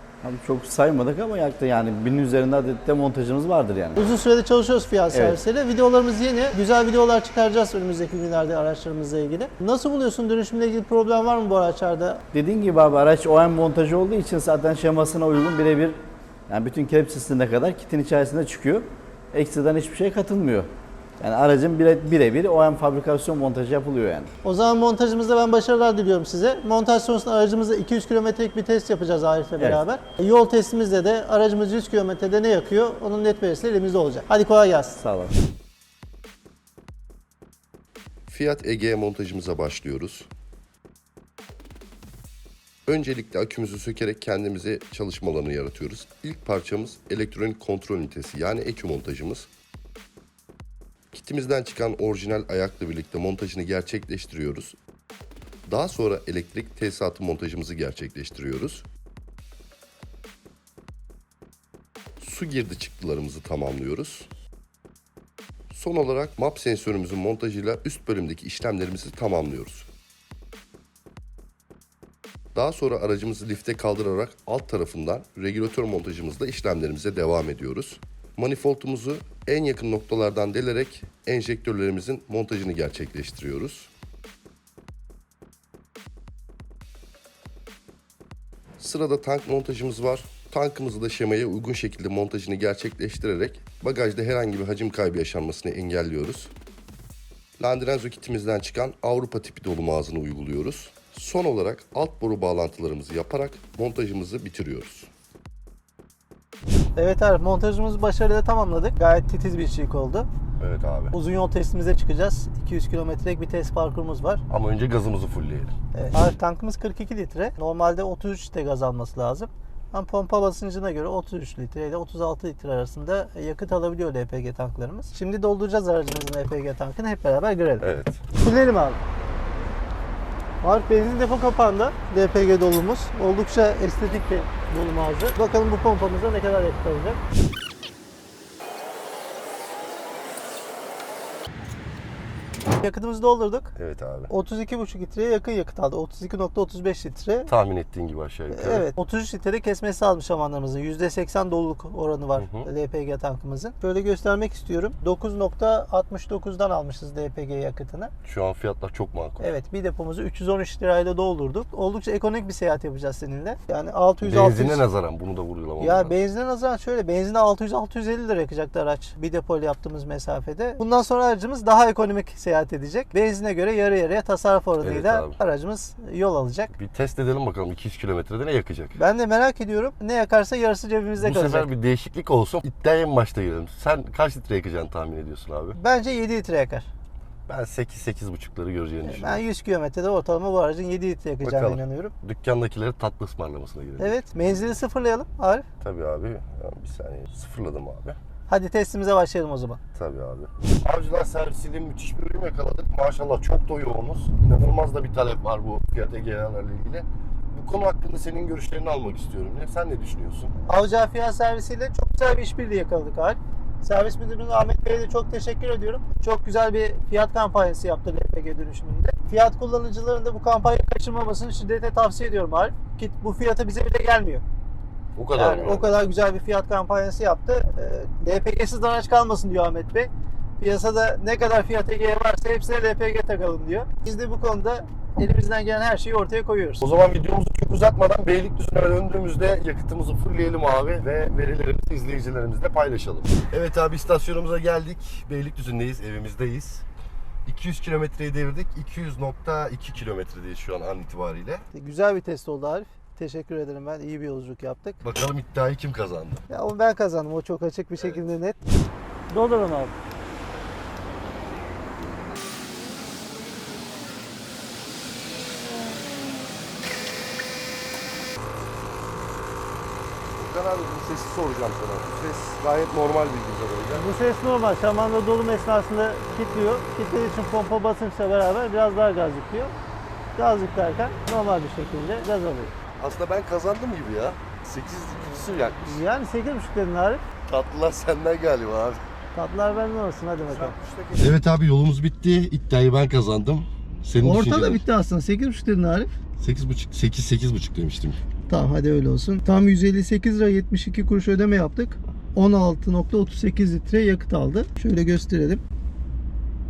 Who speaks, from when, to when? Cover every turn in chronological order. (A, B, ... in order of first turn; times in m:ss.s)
0:00.2-0:04.0 A
0:04.0-0:12.2 B
0:05.1-0:05.4 A
0:12.3-0:20.7 A
0:21.2-0:24.3 A
0:24.4-0:35.0 B
0:35.0-0:35.3 A
0:38.3-0:40.3 C
0:42.9-0:49.5 C
0:51.1-0:54.8 C
0:55.7-0:58.8 C
1:02.2-1:04.3 C
1:05.7-1:09.9 C
1:12.6-1:23.9 C
1:28.8-1:36.5 C
1:37.6-1:45.1 C
1:47.0-1:50.3 B
1:50.6-1:51.1 C
1:51.1-1:54.4 B
1:54.5-1:55.7 C
1:55.9-2:09.0 B
2:07.8-2:08.2 C
2:10.6-2:17.2 B
2:22.8-2:23.7 B
2:23.8-2:24.3 C
2:24.3-2:27.5 B
2:27.5-2:28.9 C
2:28.5-2:38.1 B
2:32.4-2:32.7 C
2:38.2-2:39.5 C
2:39.4-2:44.8 B
2:44.2-2:46.1 C
2:45.8-2:56.7 B
2:54.8-2:55.4 C
2:56.7-2:59.0 C
2:59.0-3:01.7 B
3:01.2-3:05.8 C
3:05.8-3:06.9 B
3:07.5-3:09.4 C
3:09.0-3:12.1 B
3:11.4-3:14.2 C
3:14.0-3:15.7 B
3:15.8-3:18.2 C
3:18.5-3:19.8 B
3:20.0-3:30.5 C
3:30.7-3:44.4 B
3:45.2-3:45.9 C
3:45.3-3:56.8 B
3:56.8-4:06.8 C
4:07.5-4:11.7 C
4:11.7-4:15.0 B
4:15.0-4:16.4 C
4:16.5-4:18.6 B
4:19.3-4:20.0 B
4:30.4-4:34.1 C
4:33.9-4:39.7 B
4:40.4-4:42.7 B
4:43.0-4:46.0 C
4:45.8-4:47.2 B
4:47.5-4:49.0 C
4:49.3-4:50.8 B
4:50.6-4:54.8 C
4:54.2-4:56.1 B
4:56.4-4:58.2 C
4:58.5-5:05.6 B